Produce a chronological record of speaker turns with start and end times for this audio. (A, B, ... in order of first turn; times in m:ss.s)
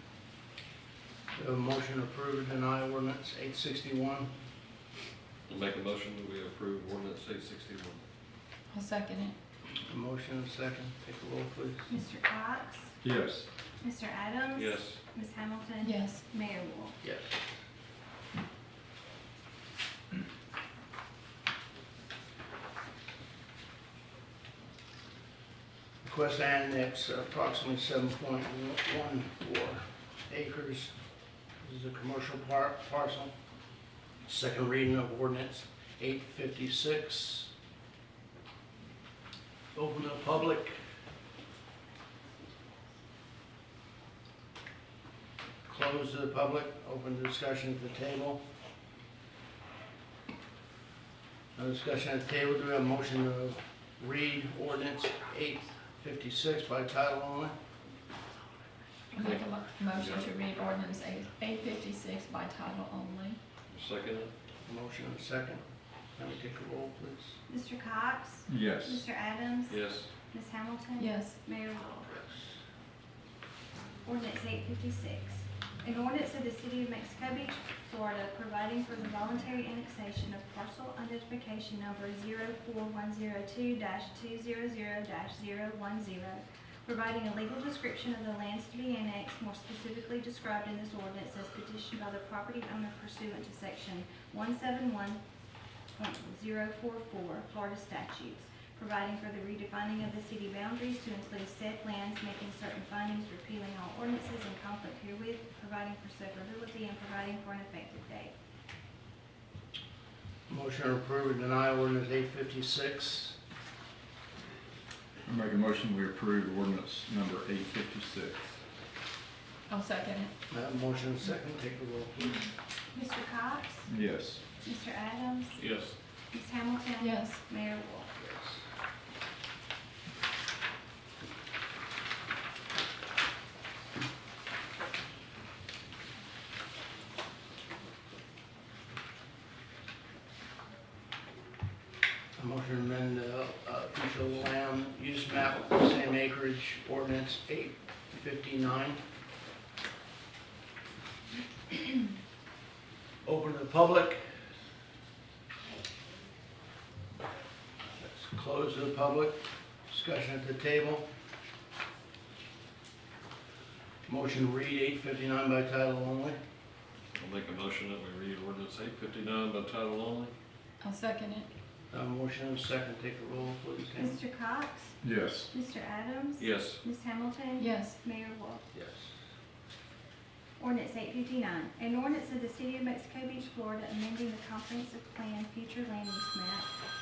0:01.3-0:04.3 A
0:05.5-0:08.0 B
0:08.7-0:09.3 C
0:09.8-0:11.9 A
0:11.9-0:13.0 D
0:13.0-0:13.4 E
0:13.8-0:17.0 D
0:14.5-0:15.0 B
0:15.8-0:16.2 C
0:17.0-0:17.4 A
0:26.0-0:30.9 A
0:31.6-0:33.3 A
0:34.2-0:37.5 A
0:39.7-0:40.8 A
0:45.7-0:48.4 A
0:51.6-0:57.5 A
0:59.1-1:03.4 C
0:59.2-1:00.3 B
1:03.7-1:04.3 B
1:04.6-1:05.6 A
1:06.2-1:07.4 A
1:07.5-1:12.2 D
1:08.5-1:09.0 E
1:09.7-1:10.1 B
1:11.0-1:11.4 C
1:14.0-1:35.2 D
1:35.9-1:48.3 D
1:50.5-1:53.4 A
1:55.2-1:58.5 E
1:59.7-2:00.3 C
2:00.5-2:02.4 A
2:02.9-2:03.9 D
2:03.9-2:04.4 E
2:04.6-2:05.6 D
2:05.6-2:05.9 B
2:06.3-2:08.1 D
2:07.0-2:07.4 C
2:08.2-2:08.6 A
2:22.4-2:29.0 A
2:33.2-2:34.2 A
2:38.0-2:41.0 A
2:44.1-2:46.4 A
2:47.2-2:50.3 B
2:50.8-2:51.5 C
2:51.9-2:54.2 A
2:54.0-2:55.0 D
2:55.0-2:55.5 E
2:55.5-2:58.6 D
2:56.4-2:56.8 B
2:57.6-2:58.0 C
2:58.7-2:59.1 A
3:00.6-3:06.7 D